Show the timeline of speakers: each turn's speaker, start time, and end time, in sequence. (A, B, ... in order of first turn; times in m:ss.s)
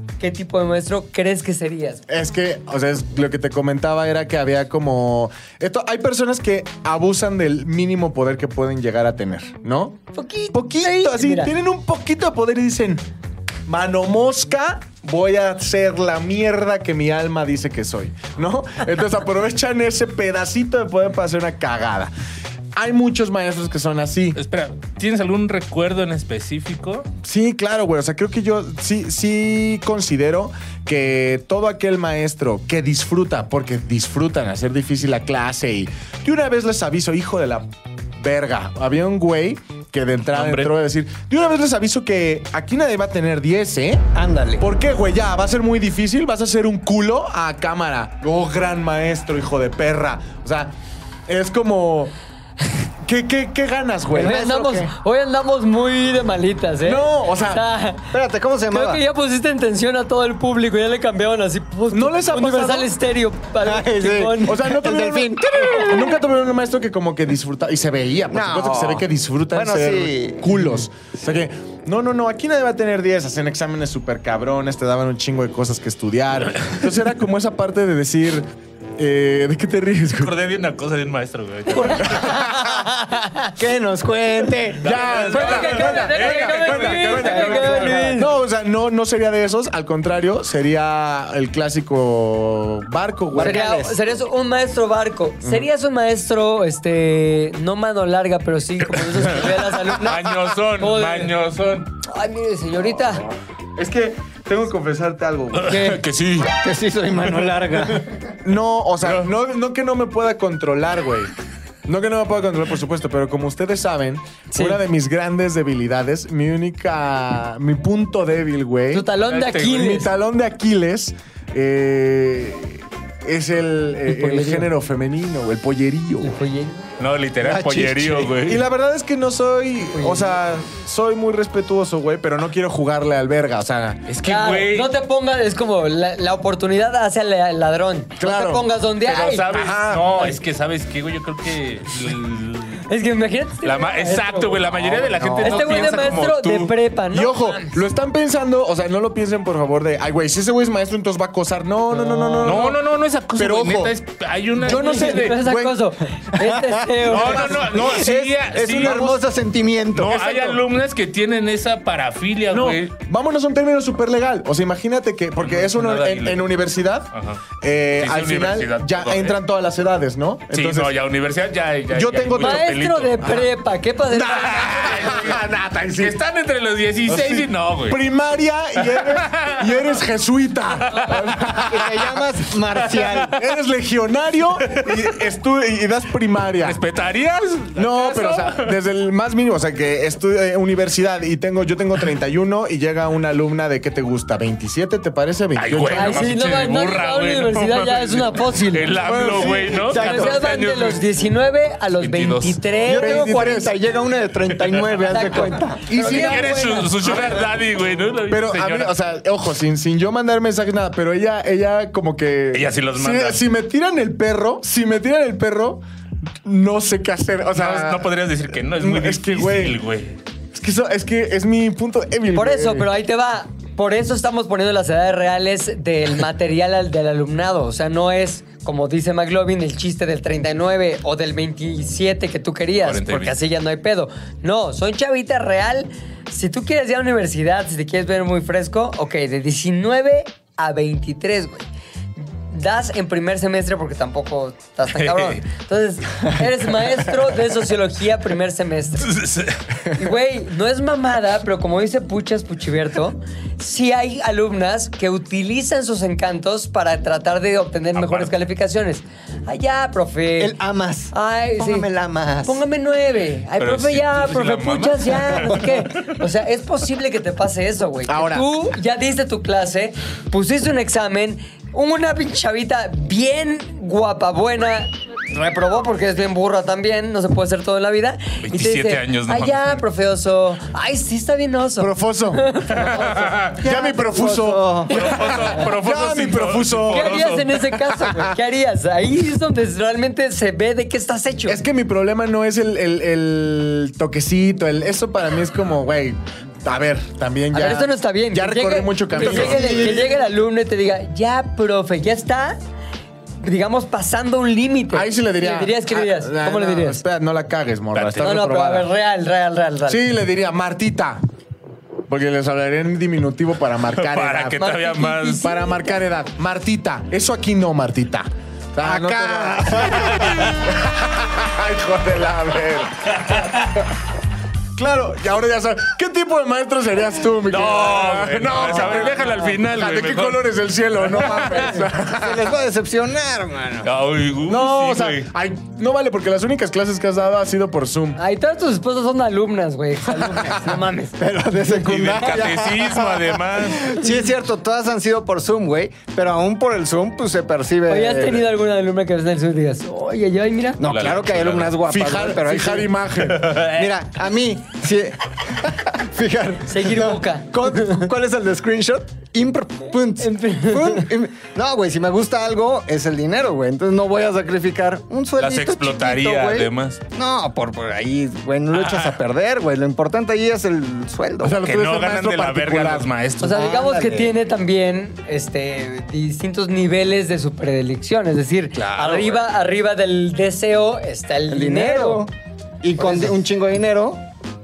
0:00.2-0:02.0 A
0:02.1-0:10.0 B
0:10.1-0:11.5 A
0:10.5-0:13.0 B
0:13.6-0:22.1 B
0:22.8-0:24.4 B
0:24.4-0:27.1 C
0:27.2-0:44.0 B
0:40.3-0:40.7 C
0:44.1-0:44.6 D
0:44.6-0:50.7 B
0:51.3-0:52.1 B
0:53.0-0:54.4 B
0:54.1-0:54.9 D
0:54.2-0:58.1 A
0:56.8-0:57.6 B
0:58.1-0:59.0 D
0:58.7-1:04.6 A
1:01.9-1:02.9 B
1:03.6-1:06.0 D
1:04.4-1:20.3 B
1:08.3-1:10.8 D
1:20.2-1:22.3 C
1:21.7-1:23.5 A
1:22.0-1:22.9 B
1:23.6-1:24.9 D
1:24.8-1:28.0 C
1:24.8-1:33.8 B
1:25.0-1:28.3 A
1:27.7-1:28.0 D
1:33.3-1:34.0 D
1:33.4-1:41.3 A
1:39.9-1:41.9 C
1:42.0-1:43.2 A
1:43.8-1:46.0 B
1:45.5-1:46.5 C
1:45.7-1:46.0 D
1:46.5-1:48.1 D
1:48.4-1:51.3 B
1:49.0-1:49.3 C
1:51.8-1:59.1 B
1:54.5-1:54.8 A
1:58.9-2:00.1 A
1:59.2-1:59.9 C
1:59.6-2:06.3 B
2:04.1-2:04.7 A
2:06.2-2:06.9 A
2:07.0-2:08.6 C
2:07.4-2:08.3 D
2:08.3-2:14.1 B
2:09.9-2:10.3 A
2:14.1-2:14.9 C
2:14.2-2:19.5 A
2:18.2-2:18.6 B
2:19.0-2:22.8 C
2:19.5-2:20.4 B
2:22.9-2:24.7 A
2:23.6-2:26.7 C
2:25.0-2:25.9 B
2:25.4-2:27.8 A
2:27.1-2:32.8 B
2:31.9-2:32.6 A
2:32.4-2:35.4 C
2:33.3-2:33.9 B
2:34.6-2:35.8 B
2:34.6-2:37.7 A
2:36.4-2:40.6 D
2:37.0-2:39.1 C
2:37.1-2:38.1 B
2:38.7-2:39.2 B
2:39.9-2:42.9 C
2:42.5-2:50.9 B
2:45.4-2:46.4 C
2:47.1-2:47.4 C
2:48.0-2:49.4 C
2:50.5-2:53.5 C
2:51.9-2:52.7 B
2:52.4-2:55.2 A
2:54.1-2:56.2 B
2:54.5-2:55.4 C
2:56.0-2:58.0 C
2:57.0-3:02.0 B
2:58.8-2:59.9 C
3:00.8-3:01.6 C
3:01.7-3:03.4 D
3:02.7-3:03.3 C
3:03.3-3:06.8 B
3:04.7-3:05.0 C
3:06.6-3:08.7 C
3:07.7-3:16.3 B
3:15.5-3:21.0 C
3:15.9-3:18.9 A
3:19.0-3:19.8 B
3:19.0-3:20.5 D
3:19.9-3:23.3 A
3:22.0-3:22.6 C
3:22.8-3:25.8 D
3:23.0-3:23.7 B
3:25.0-3:27.4 A
3:25.8-3:27.4 B
3:26.0-3:28.9 C
3:28.3-3:35.8 B
3:32.5-3:33.4 C
3:36.4-3:38.1 B
3:37.5-3:40.2 C
3:38.7-3:39.8 B
3:40.5-3:42.9 B
3:42.3-4:01.6 A
3:52.8-3:53.4 C
4:02.5-4:09.2 A
4:04.9-4:05.4 C
4:09.0-4:09.6 C
4:09.9-4:20.6 A
4:18.0-4:18.3 C
4:20.4-4:22.6 D
4:21.1-4:21.9 A
4:22.4-4:43.4 A
4:23.6-4:26.0 C
4:28.0-4:28.4 B
4:38.4-4:39.8 C
4:41.8-4:48.4 B
4:42.8-4:43.6 C
4:43.6-4:44.9 D
4:44.9-4:47.6 C
4:46.9-4:51.6 A
4:51.4-5:00.1 B
4:57.5-5:02.6 A
4:59.2-5:00.2 D
5:03.4-5:07.0 A
5:04.9-5:08.9 B
5:07.9-5:08.3 C
5:08.2-5:10.0 A
5:09.9-5:11.2 B
5:12.1-5:14.7 B
5:14.0-5:15.5 C
5:14.6-5:15.6 A
5:15.2-5:23.9 B
5:18.8-5:20.5 D
5:24.7-5:32.5 B
5:27.5-5:31.8 C
5:31.5-5:33.9 D
5:33.8-5:35.3 C
5:34.4-5:38.2 B
5:38.2-5:41.2 A
5:40.1-5:40.6 B
5:41.2-5:48.5 D
5:41.6-5:44.0 C
5:47.9-5:50.8 A
5:50.8-6:11.6 D
5:50.8-5:51.8 C
5:51.8-5:53.6 B
5:53.5-5:53.9 C
5:56.7-5:58.0 A
6:00.2-6:01.1 A
6:05.4-6:07.0 C
6:08.7-6:09.2 C
6:11.4-6:13.1 B
6:11.6-6:13.7 C
6:13.4-6:22.2 A
6:13.5-6:14.3 D
6:18.8-6:19.4 C
6:21.5-6:22.3 D
6:22.8-6:24.2 D
6:23.0-6:23.3 A